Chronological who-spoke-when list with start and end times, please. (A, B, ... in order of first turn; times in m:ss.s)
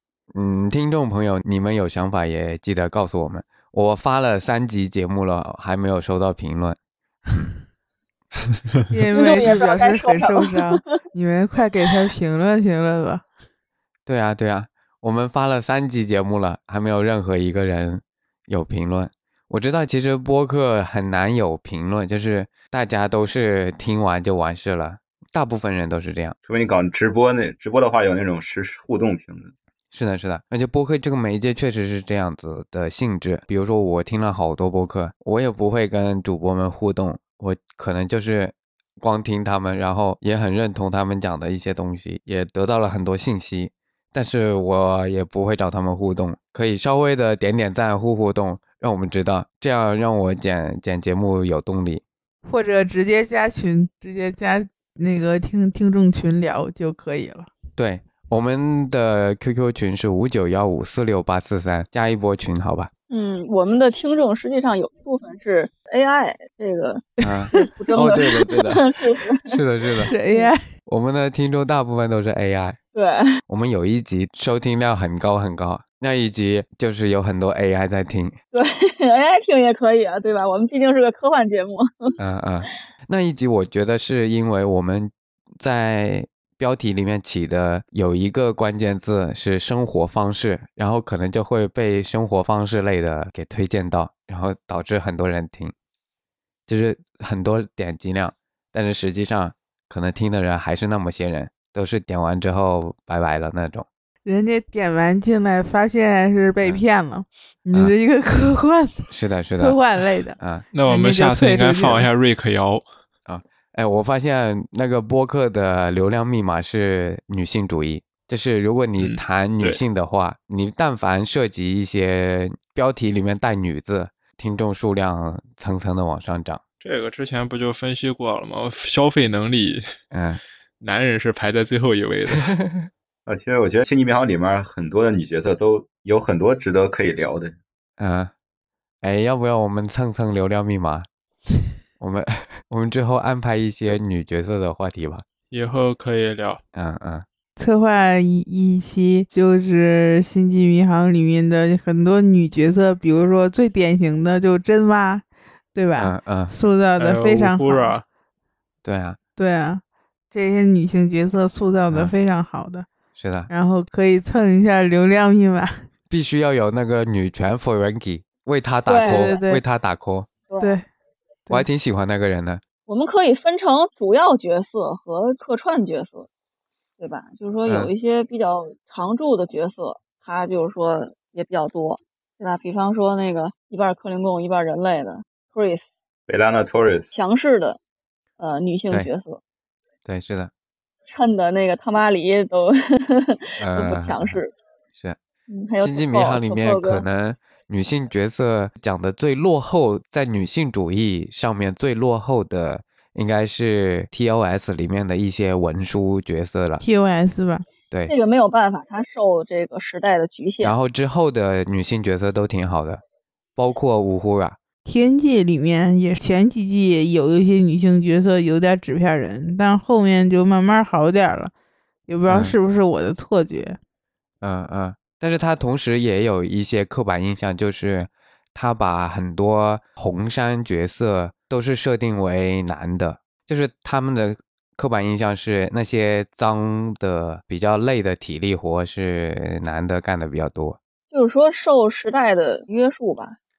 0:00.3-0:06.8 A
0:08.9-0:13.2 B
0:09.1-0:11.0 C
0:14.0-0:26.3 A
0:26.4-0:29.5 D
0:29.9-0:52.0 A
0:52.4-0:57.5 B
0:57.8-1:02.9 A
1:03.1-1:10.5 C
1:07.2-1:08.8 A
1:07.4-1:08.1 B
1:09.4-1:10.1 A
1:10.0-1:10.6 B
1:10.8-1:12.8 A
1:12.9-1:13.2 C
1:13.5-1:18.4 A
1:18.5-1:22.7 C
1:22.2-1:35.7 A
1:36.7-1:43.8 A
1:44.2-1:52.1 B
1:49.1-1:49.8 A
1:50.4-1:50.6 A
1:50.7-1:52.8 E
1:53.3-2:06.6 A
1:59.0-1:59.8 E
2:06.8-2:09.8 E
2:10.1-2:10.4 A
2:10.8-2:12.6 E
2:12.3-2:12.8 A
2:13.3-2:17.6 D
2:18.0-2:18.3 A
2:19.0-2:21.1 A
2:22.0-2:25.2 A
2:25.5-2:26.6 E
2:26.7-2:27.2 A
2:27.6-2:38.0 B
2:36.0-2:36.5 A
2:37.0-2:38.0 E
2:38.8-2:39.2 A
2:39.4-2:42.9 B
2:43.1-2:43.5 A
2:43.5-2:45.8 B
2:46.1-2:50.3 A
2:48.9-2:49.4 C
2:49.0-2:49.6 B
2:50.5-2:50.8 C
2:50.6-2:50.8 B
2:51.5-2:52.6 A
2:52.9-2:56.3 C
2:57.0-3:05.8 C
2:57.6-2:57.9 A
3:06.3-3:07.1 D
3:07.1-3:07.8 C
3:08.4-3:09.4 C
3:10.0-3:10.5 A
3:11.1-3:14.5 C
3:13.6-3:14.4 A
3:15.5-3:17.0 C
3:15.8-3:26.8 A
3:26.8-3:27.6 B
3:28.1-3:30.7 C
3:30.6-3:33.0 A
3:33.6-3:34.6 A
3:34.8-3:41.5 B
3:42.1-3:43.8 B
3:42.3-3:42.5 A
3:44.4-4:00.8 A
4:01.1-4:03.4 C